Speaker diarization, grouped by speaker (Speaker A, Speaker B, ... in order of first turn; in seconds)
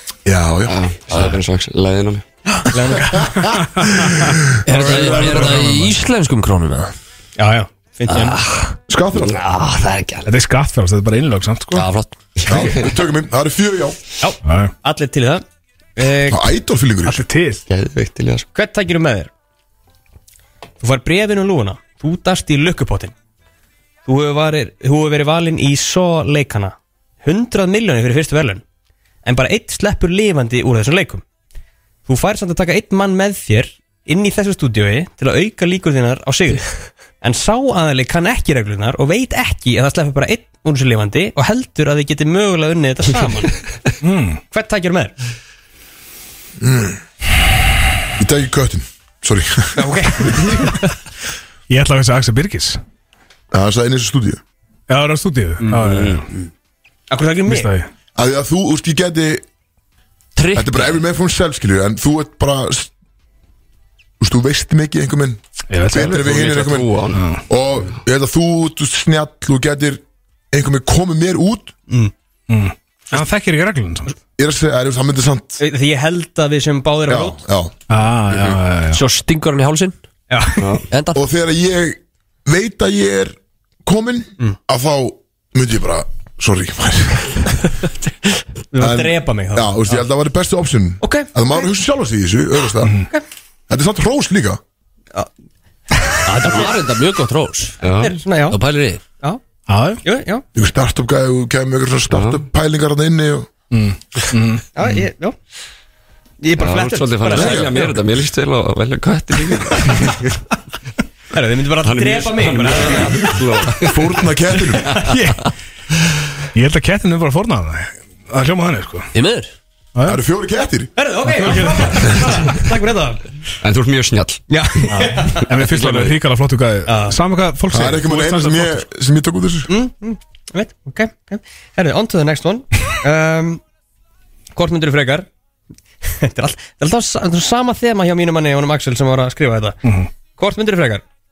Speaker A: 0.2-1.3, 3.2-5.9, 8.9-9.4, 12.4-14.0, 16.3-17.2, 46.6-47.0, 48.2-50.3, 53.5-54.4, 58.1-59.4, 60.5-62.9, 64.2-71.7, 74.4-75.6, 77.1-77.7, 81.1-87.6, 88.8-93.0, 93.7-94.6, 100.5-103.5, 107.2-107.9, 113.8-115.0, 120.0-120.9, 127.7-129.7
Speaker B: 0.7-2.2, 9.1-10.3, 12.4-12.9, 17.7-18.5, 55.8-56.2, 66.0-67.2, 80.6-80.8, 97.8-98.2, 102.1-102.4, 106.6-110.4, 111.8-114.2, 123.6-124.8, 125.4-126.2
Speaker C: 2.7-3.2, 7.4-8.4, 14.2-15.4, 15.9-16.4, 18.5-19.3, 20.8-23.1, 24.1-28.6, 29.2-31.2, 32.1-36.6, 37.2-43.6, 44.5-45.1, 49.8-50.9, 57.1-57.7, 75.6-77.4, 80.3-80.7, 88.7-90.0, 91.0-91.3, 95.9-96.7, 98.0-98.6, 100.0-100.4, 104.7-105.3, 106.4-107.9, 111.3-113.4, 121.0-123.2, 124.5-125.4, 126.8-127.2, 129.7-133.6, 134.5-135.3, 136.0-139.8, 140.3-141.0
Speaker D: 3.5-4.1, 4.8-5.8, 10.2-11.9, 14.4-14.7, 17.0-17.6, 44.0-44.4, 51.7-52.8, 54.9-56.2, 57.5-57.9, 65.7-66.4, 67.1-67.4, 72.5-74.2, 77.9-79.0, 99.7-100.0, 103.7-104.6, 114.9-115.5, 116.5-119.1, 121.3-122.5, 124.8-128.8, 139.8-140.1
Speaker E: 4.6-6.9, 8.1-8.8, 11.7-12.5, 60.4-61.0, 78.9-80.0, 80.9-81.2, 96.2-97.8, 98.5-99.0, 119.1-119.5